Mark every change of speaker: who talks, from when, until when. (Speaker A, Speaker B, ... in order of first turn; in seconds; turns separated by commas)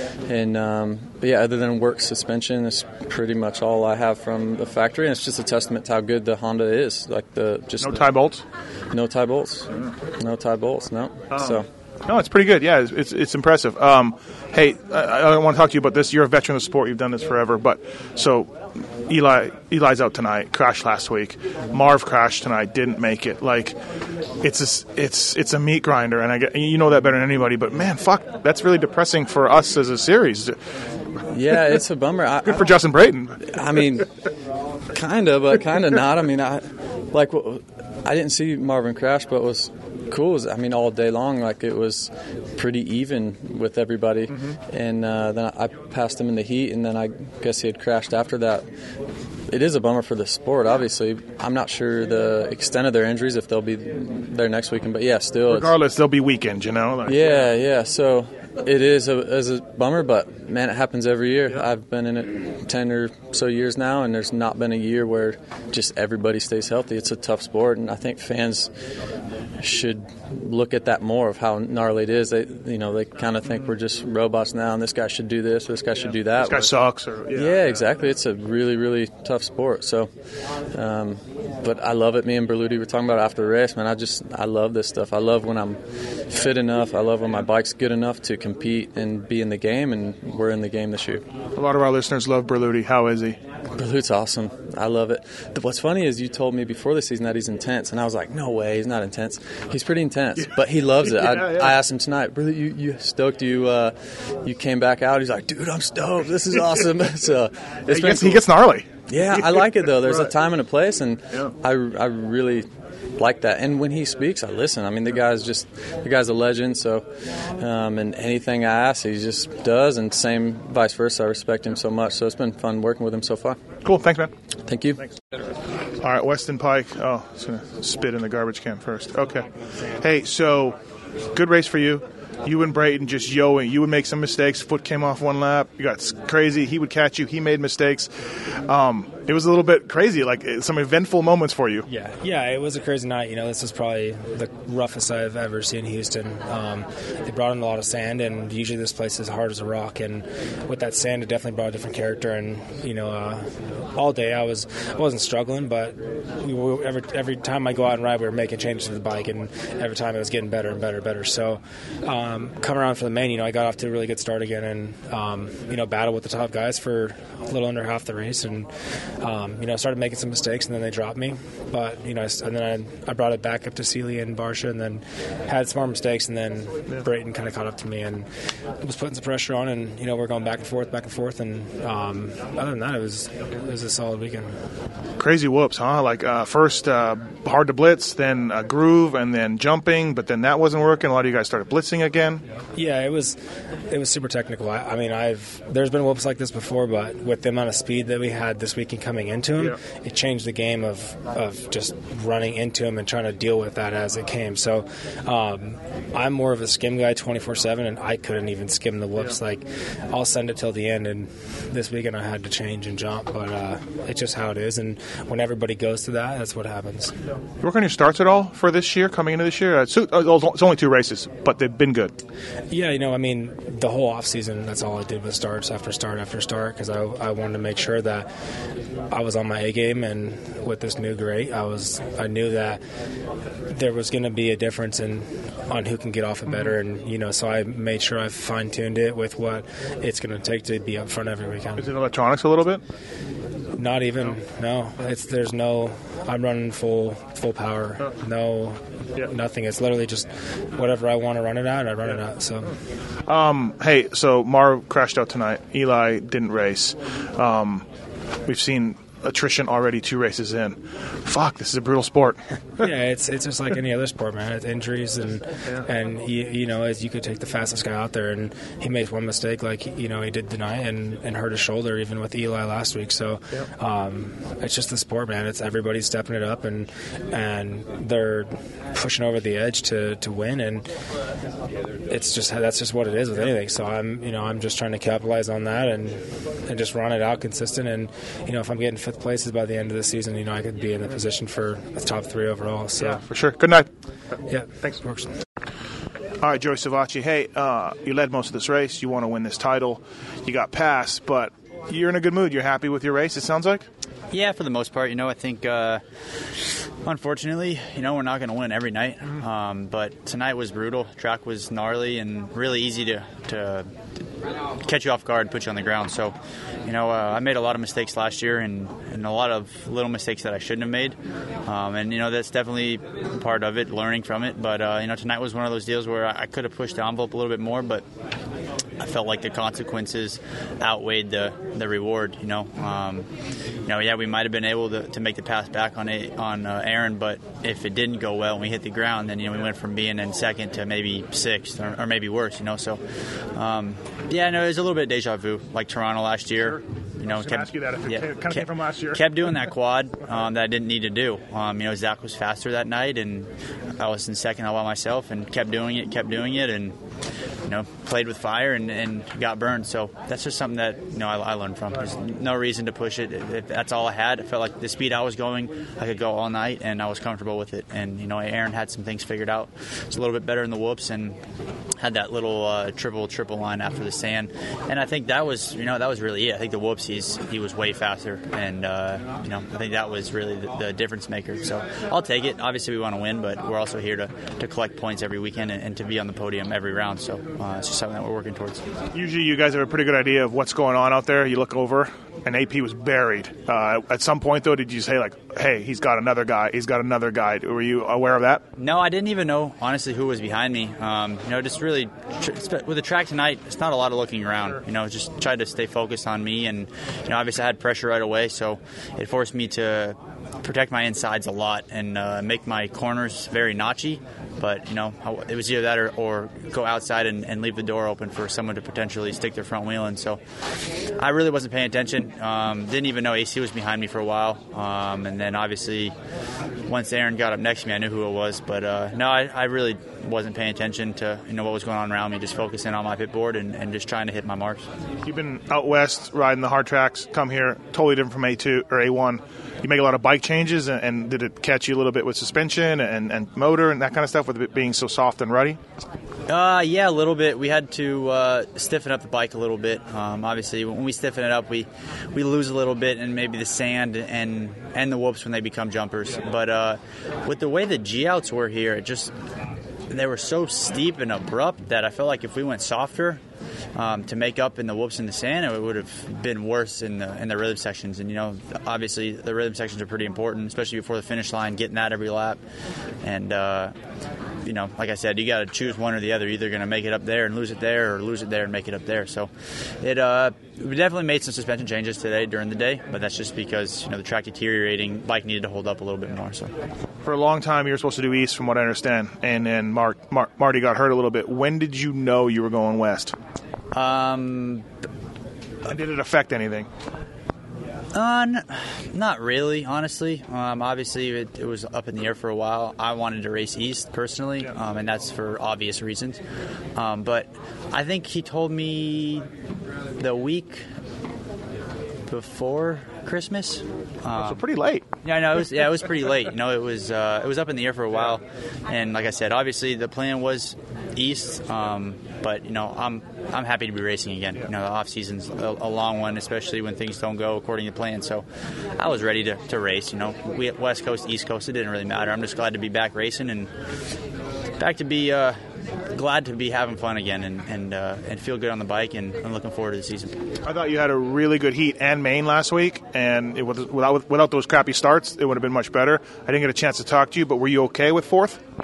Speaker A: 0.3-8.1, Speaker B: 7.8-8.4, Speaker A: 8.9-11.7, Speaker B: 11.3-18.6, Speaker B: 19.1-23.8, Speaker B: 24.4-30.6, Speaker A: 31.3-32.8, Speaker B: 32.5-33.5, Speaker A: 33.5-34.1, Speaker A: 34.9-48.6, Speaker A: 49.5-55.8, Speaker B: 55.5-57.5, Speaker A: 57.1-68.7, Speaker A: 69.6-76.7, Speaker B: 76.3-77.8, Speaker A: 77.3-80.1, Speaker A: 80.7-91.2, Speaker B: 91.6-93.4, Speaker A: 93.8-108.5, Speaker B: 101.1-101.7, Speaker B: 107.9-110.3, Speaker A: 109.1-117.1, Speaker A: 117.6-123.6, Speaker B: 123.8-124.3, Speaker A: 124.7-125.0, Speaker B: 126.0-129.5, Speaker B: 130.0-130.8, Speaker B: 131.3-138.1, Speaker B: 138.7-141.9, Speaker C: 141.9-168.7, Speaker C: 169.2-178.3, Speaker C: 178.8-184.5, Speaker B: 185.2-192.4, Speaker C: 192.8-217.1, Speaker B: 217.6-222.2, Speaker C: 222.7-228.3, Speaker C: 229.1-232.8, Speaker C: 233.7-241.9, Speaker B: 236.5-236.8, Speaker B: 241.8-242.8, Speaker C: 243.8-252.7, Speaker B: 253.3-257.9, Speaker B: 258.5-262.9, Speaker C: 262.8-280.9, Speaker C: 282.1-293.2, Speaker B: 293.0-293.9, Speaker C: 294.5-295.3, Speaker B: 294.7-295.0, Speaker B: 296.4-303.9, Speaker D: 304.3-306.0, Speaker D: 307.0-313.9, Speaker D: 314.8-328.1, Speaker D: 329.0-333.3, Speaker D: 333.9-343.0, Speaker D: 343.6-357.0, Speaker B: 346.6-349.7, Speaker D: 357.6-371.4, Speaker D: 372.0-388.8, Speaker B: 389.1-398.6, Speaker D: 398.8-420.4, Speaker D: 421.2-426.1, Speaker D: 426.9-434.9, Speaker B: 435.2-445.8, Speaker D: 446.5-459.3, Speaker D: 460.1-463.4, Speaker D: 463.9-472.6, Speaker D: 473.2-473.9, Speaker D: 474.6-486.7, Speaker B: 487.2-493.4, Speaker D: 493.9-494.9, Speaker B: 495.9-496.9, Speaker D: 498.1-506.4, Speaker D: 507.0-509.5, Speaker D: 510.2-510.8, Speaker D: 512.3-514.6, Speaker B: 514.3-515.1, Speaker D: 515.2-528.5, Speaker D: 529.0-533.7, Speaker D: 534.8-535.6, Speaker D: 536.1-540.4, Speaker B: 540.6-548.6